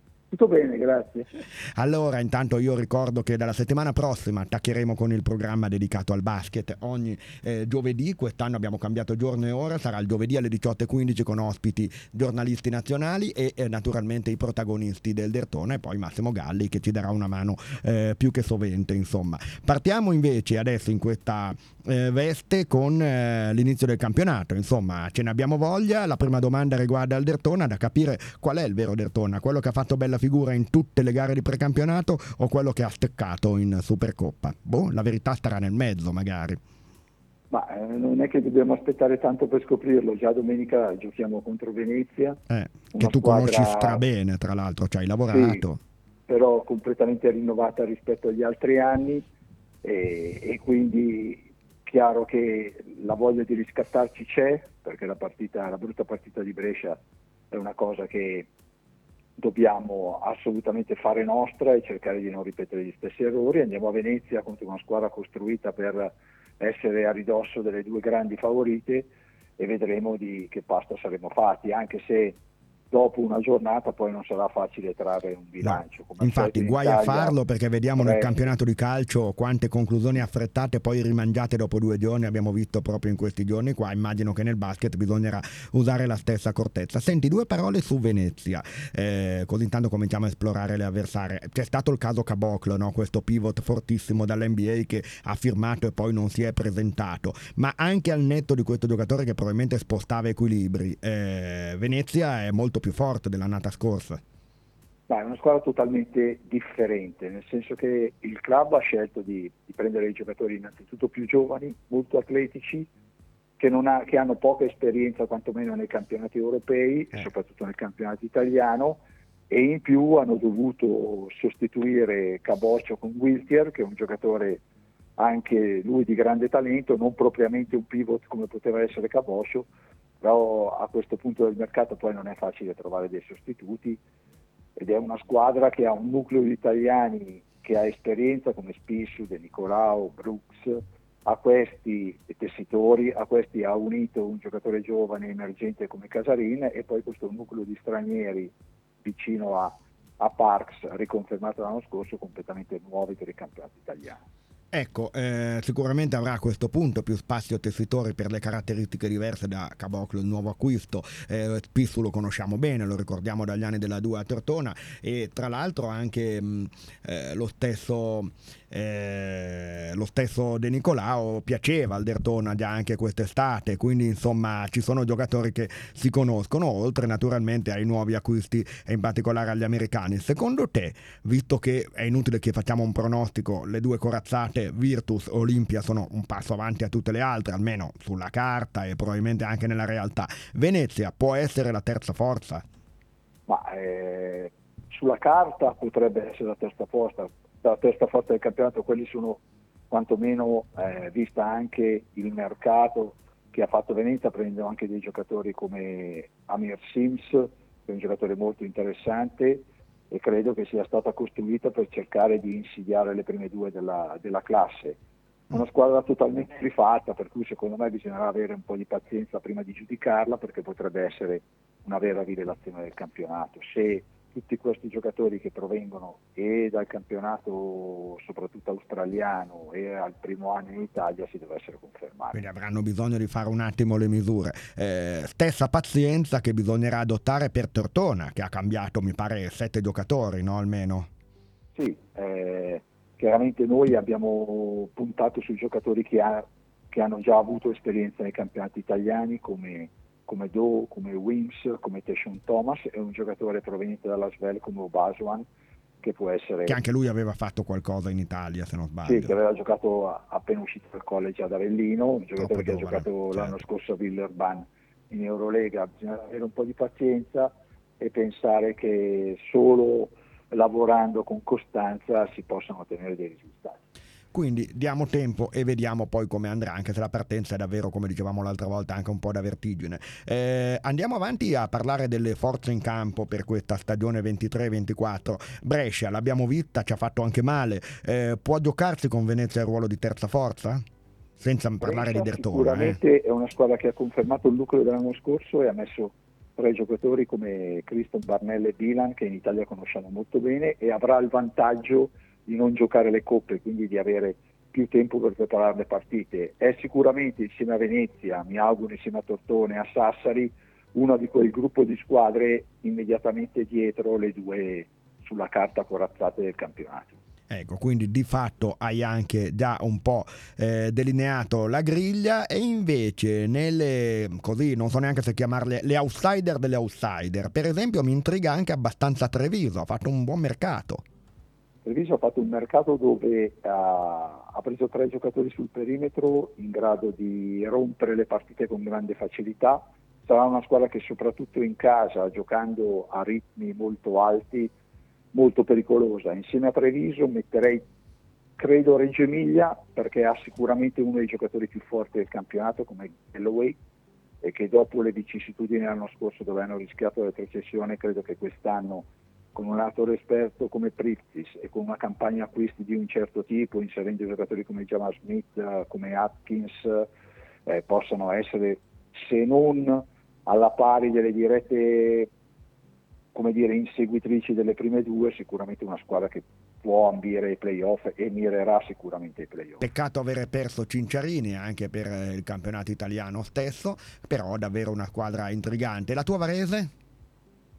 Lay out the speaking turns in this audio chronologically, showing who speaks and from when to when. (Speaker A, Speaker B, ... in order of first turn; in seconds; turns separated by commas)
Speaker A: 0.3-1.3, Speaker B: 1.8-36.6, Speaker A: 37.5-42.4, Speaker B: 42.5-45.8, Speaker A: 42.9-44.0, Speaker A: 45.3-45.6, Speaker A: 46.3-49.2, Speaker A: 49.8-58.5, Speaker A: 59.4-72.4, Speaker A: 72.9-77.4, Speaker B: 75.6-104.2, Speaker A: 78.0-78.3, Speaker A: 105.1-112.9, Speaker A: 113.6-124.6, Speaker A: 125.2-129.7, Speaker A: 130.2-134.0, Speaker A: 134.8-154.2, Speaker B: 154.7-192.6, Speaker A: 193.5-215.0, Speaker A: 215.5-232.4, Speaker B: 232.3-241.1, Speaker A: 241.8-255.5, Speaker A: 256.0-256.8, Speaker B: 256.6-259.3, Speaker A: 259.0-273.8, Speaker B: 262.4-263.6, Speaker B: 274.3-290.8, Speaker B: 291.4-293.0, Speaker A: 291.8-317.2, Speaker B: 317.5-331.0, Speaker A: 331.8-344.7, Speaker A: 345.3-347.9, Speaker A: 348.6-353.8, Speaker A: 354.4-367.1, Speaker A: 367.6-372.3, Speaker A: 373.3-379.8, Speaker B: 379.8-386.9